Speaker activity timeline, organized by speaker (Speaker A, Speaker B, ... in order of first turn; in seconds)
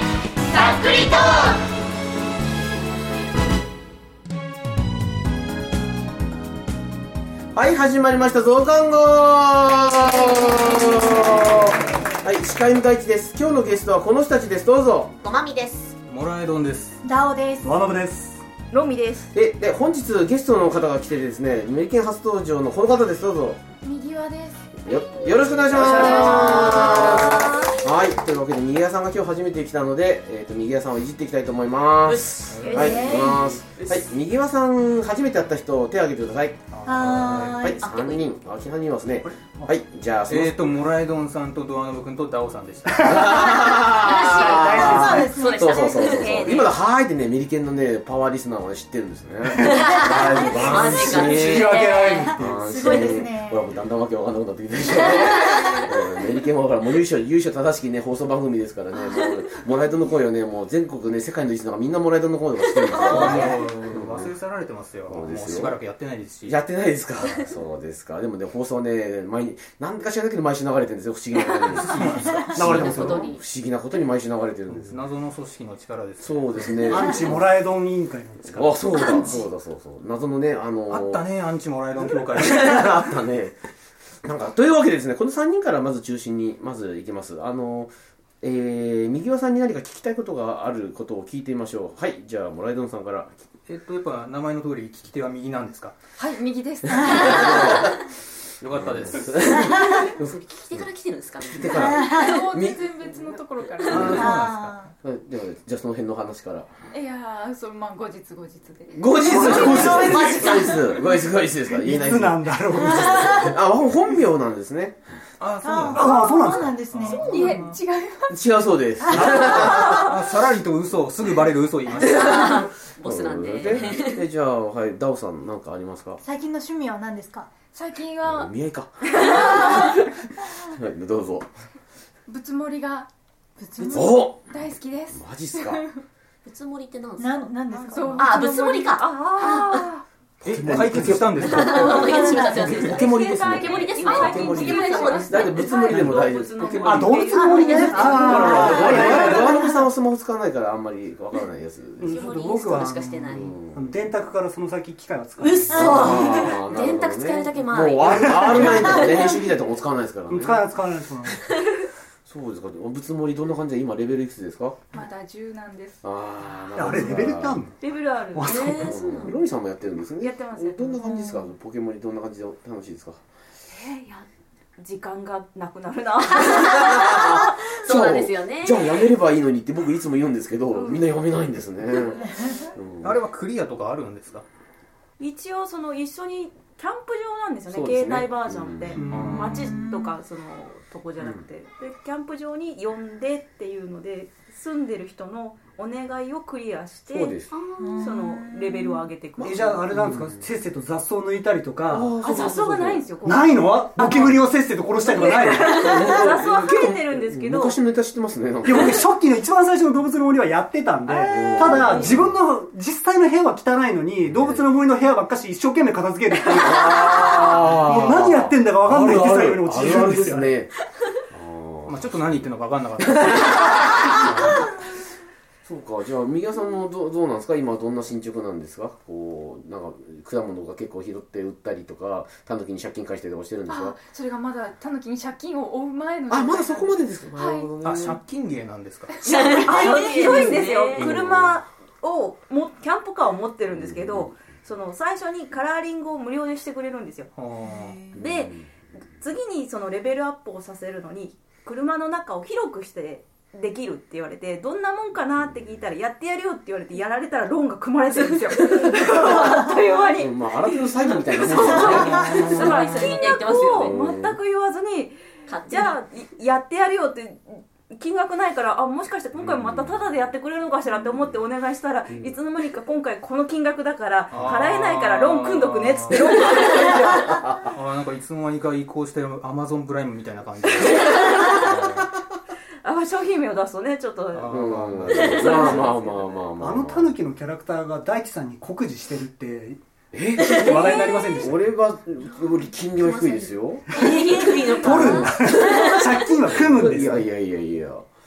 Speaker A: 7.5-15.2, 19.3-23.6, 24.8-40.6, 43.0-64.3, 65.1-65.8, 66.5-75.0, 76.2-77.4, 78.5-81.3, 82.3-83.6, 84.2-93.4, 97.0-97.9, 98.7-104.4, 105.0-106.7, 109.0-115.0, 118.3-120.2, 123.0-126.2, 128.2-129.8, 130.4-131.5, 133.8-134.4, 135.1-135.8, 140.4-152.2, 153.3-153.9, 155.7-160.8, 162.3-164.8, 166.0-167.7, 168.7-173.2, 176.8-183.2, 187.7-189.0, 191.2-191.4, 197.0-197.5, 199.4-200.5, 201.9-203.1, 205.6-209.0, 211.3-212.3, 214.3-214.6, 216.5-220.7, 221.3-222.4, 223.0-224.6, 225.7-234.0, 236.3-238.2, 240.9-241.6, 243.7-244.3, 248.2-248.7, 260.2-262.8, 263.8-264.4, 269.4-270.1, 272.1-272.4, 277.3-277.7, 284.5-287.1, 290.1-294.1, 294.8-295.5, 296.5-298.1
Speaker B: 15.2-15.9, 25.7-27.8, 32.1-34.1, 37.8-38.3, 43.3-46.7, 49.6-52.1, 52.7-53.2, 54.9-55.9, 63.2-63.5, 71.5-71.8, 72.5-73.4, 79.0-79.4, 97.2-97.7, 100.1-102.4, 109.3-110.9, 112.9-113.5, 122.0-124.2, 136.4-137.5, 138.1-139.9, 141.4-146.2, 147.5-149.4, 152.0-153.6, 155.4-159.5, 168.4-169.4, 176.4-179.1, 197.5-198.1, 239.3-241.2, 247.8-248.2, 258.3-259.0, 261.3-264.0, 265.5-266.0, 281.2-281.5, 285.2-285.8, 290.5-291.2, 292.6-296.3
Speaker C: 16.1-17.0, 32.5-33.1, 36.7-37.6, 40.3-43.2, 63.0-66.6, 71.7-72.6, 74.7-77.4, 80.9-83.0, 93.7-96.0, 98.6-99.7, 103.9-104.9, 115.4-116.1, 116.7-117.8, 119.5-122.7, 140.6-142.9, 183.0-184.4, 189.1-189.8, 221.9-224.6, 237.8-239.2, 247.3-248.1, 274.3-282.1, 284.3-286.0
Speaker D: 17.1-17.7, 23.9-24.5, 32.8-33.2, 36.9-37.8, 45.1-46.3, 51.9-53.6, 96.9-97.2, 101.8-102.3, 104.1-104.7, 109.7-110.6, 115.6-117.2, 119.3-120.0, 126.2-127.5, 133.6-134.1, 137.2-138.1, 141.8-142.9, 148.3-149.7, 156.1-156.6, 189.7-190.1, 197.8-199.0
Speaker E: 17.6-18.4, 39.2-39.8, 42.9-43.7, 44.5-45.5, 50.9-52.6, 72.5-73.3, 76.8-78.7, 109.2-110.3, 111.7-113.4, 115.9-116.8, 119.2-119.4, 140.4-141.3, 145.9-146.2, 146.8-149.6, 152.0-156.1, 158.1-158.8, 160.3-161.4, 166.7-167.8, 168.3-169.1, 189.0-189.7, 199.4-202.4, 203.2-206.1, 208.6-220.5, 286.6-289.8, 290.4-291.7, 294.0-297.3
Speaker F: 18.7-19.3, 137.7-139.9, 142.9-149.0, 167.8-168.6, 170.2-171.1, 173.7-176.9, 180.7-181.0, 185.2-197.4, 197.9-199.9, 202.2-207.8, 211.1-212.2, 239.3-247.3, 248.2-248.6, 249.2-277.2, 282.8-284.6, 285.1-286.2, 290.6-290.9
Speaker G: 96.2-97.8, 102.0-104.3, 106.9-110.2, 115.9-118.4, 127.7-128.5, 132.3-133.1, 133.8-136.0, 137.8-139.0, 145.0-145.5, 164.9-166.0, 233.7-237.7, 239.2-239.8, 258.1-258.6